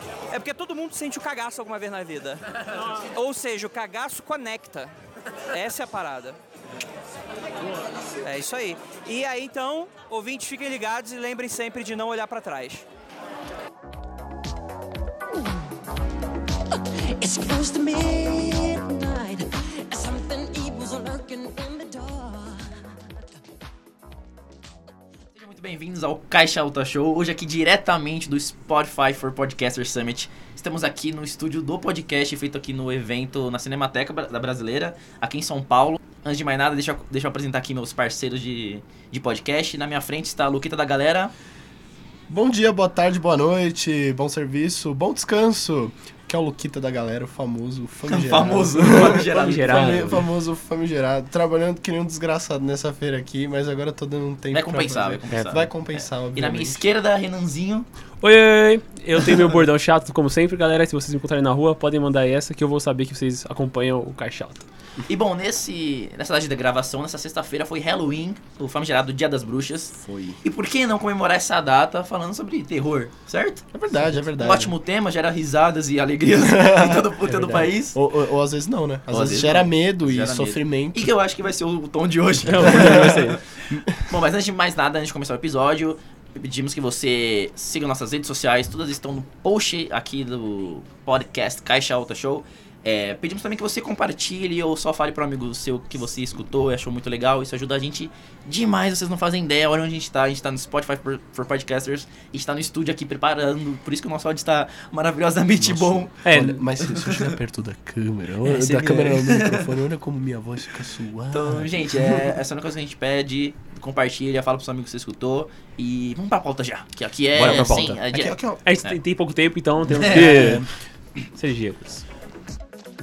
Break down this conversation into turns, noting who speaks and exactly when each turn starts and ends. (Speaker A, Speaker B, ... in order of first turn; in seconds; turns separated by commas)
Speaker A: 0.3-4.9, Speaker B: 2.7-3.1, Speaker A: 5.5-6.4, Speaker A: 8.2-12.9, Speaker C: 16.7-22.8, Speaker D: 25.3-41.3, Speaker E: 42.3-56.8, Speaker D: 48.1-50.1, Speaker B: 49.0-50.3, Speaker D: 54.5-57.9, Speaker B: 58.2-64.7, Speaker D: 65.1-73.7, Speaker E: 69.9-70.4, Speaker E: 73.7-74.7, Speaker D: 74.4-78.0, Speaker E: 76.4-77.2, Speaker B: 77.3-77.7, Speaker E: 77.8-81.1, Speaker D: 79.1-106.2, Speaker B: 82.5-83.4, Speaker E: 82.6-84.1, Speaker E: 105.6-112.4, Speaker B: 106.2-106.6, Speaker D: 106.8-107.3, Speaker D: 108.4-109.8, Speaker D: 111.3-119.0, Speaker B: 117.4-118.0, Speaker E: 117.4-118.6, Speaker B: 118.7-120.7, Speaker D: 119.9-120.6, Speaker E: 120.0-120.7, Speaker B: 121.3-122.0